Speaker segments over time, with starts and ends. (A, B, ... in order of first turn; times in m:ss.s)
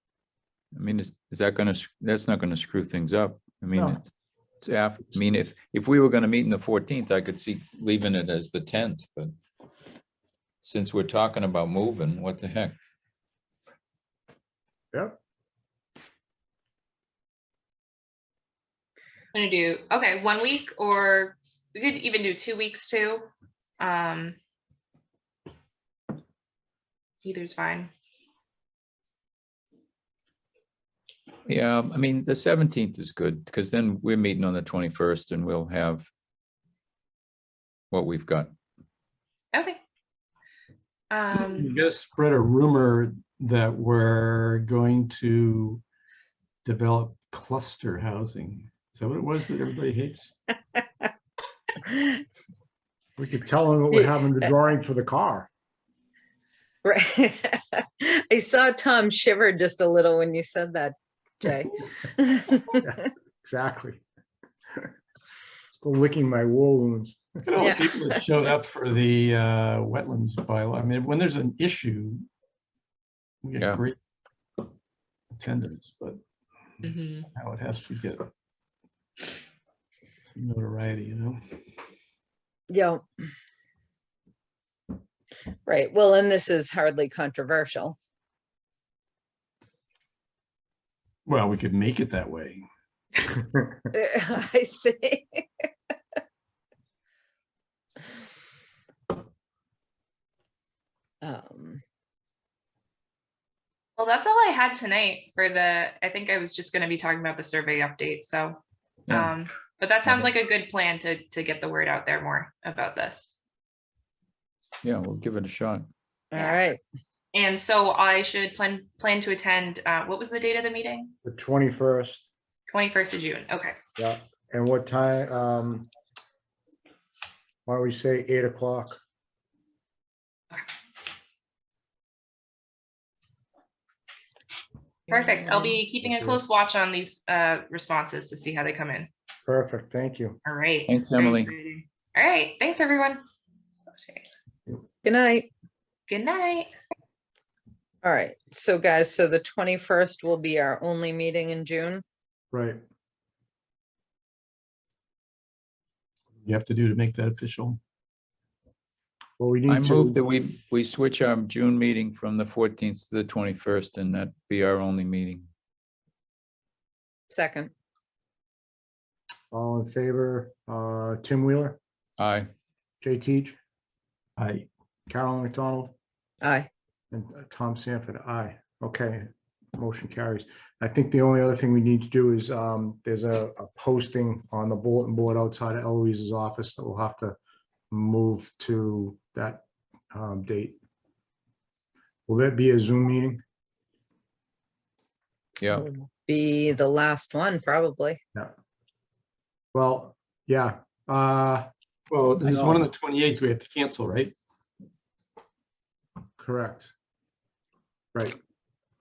0:00.7-0:04.1 A
0:04.6-0:09.4 A
0:10.6-0:12.8 A
0:19.3-0:23.3 B
0:23.8-0:24.4 B
0:27.2-0:27.9 B
0:31.4-0:36.1 A
0:37.9-0:38.5 A
0:39.5-0:39.8 B
0:41.1-0:41.8 B
0:41.3-0:45.8 C
0:46.6-0:50.3 C
0:51.8-0:52.2 D
0:53.2-0:55.5 E
0:56.8-1:02.8 D
1:02.8-1:04.0 E
1:05.7-1:07.4 E
1:07.4-1:12.3 C
1:07.6-1:08.2 D
1:13.4-1:14.0 C
1:13.6-1:13.8 A
1:15.3-1:16.2 C
1:16.8-1:17.3 B
1:17.3-1:18.3 C
1:20.2-1:21.6 C
1:22.7-1:23.0 D
1:25.6-1:28.0 D
1:31.2-1:32.7 C
1:33.9-1:35.4 D
1:41.2-1:41.8 D
1:44.0-1:53.3 B
1:54.8-1:55.9 A
1:56.3-1:56.8 D
1:56.3-1:56.6 B
1:57.3-2:01.1 B
2:01.2-2:02.3 E
2:02.7-2:03.8 B
2:04.0-2:05.9 E
2:07.6-2:09.0 E
2:15.1-2:15.8 D
2:15.1-2:19.1 B
2:16.0-2:16.4 E
2:19.4-2:20.4 E
2:20.4-2:23.2 B
2:20.9-2:21.5 A
2:24.0-2:24.3 B
2:25.0-2:25.5 D
2:26.1-2:26.7 B
2:28.0-2:32.0 D
2:32.5-2:32.8 E
2:36.4-2:37.8 C
2:39.4-2:40.2 E
2:39.7-2:45.5 A
2:47.3-2:47.7 D
2:49.5-2:51.8 E
2:52.2-2:52.5 A
2:53.0-2:53.6 E
2:54.4-2:54.7 C
2:55.1-2:56.0 E
2:56.4-2:56.7 D
2:57.1-3:07.4 E
3:07.9-3:10.8 E
3:12.3-3:13.4 E
3:15.6-3:15.9 A
3:15.7-3:18.2 D
3:19.7-3:21.7 E
3:22.1-3:24.3 C
3:22.4-3:22.8 E
3:26.4-3:26.9 E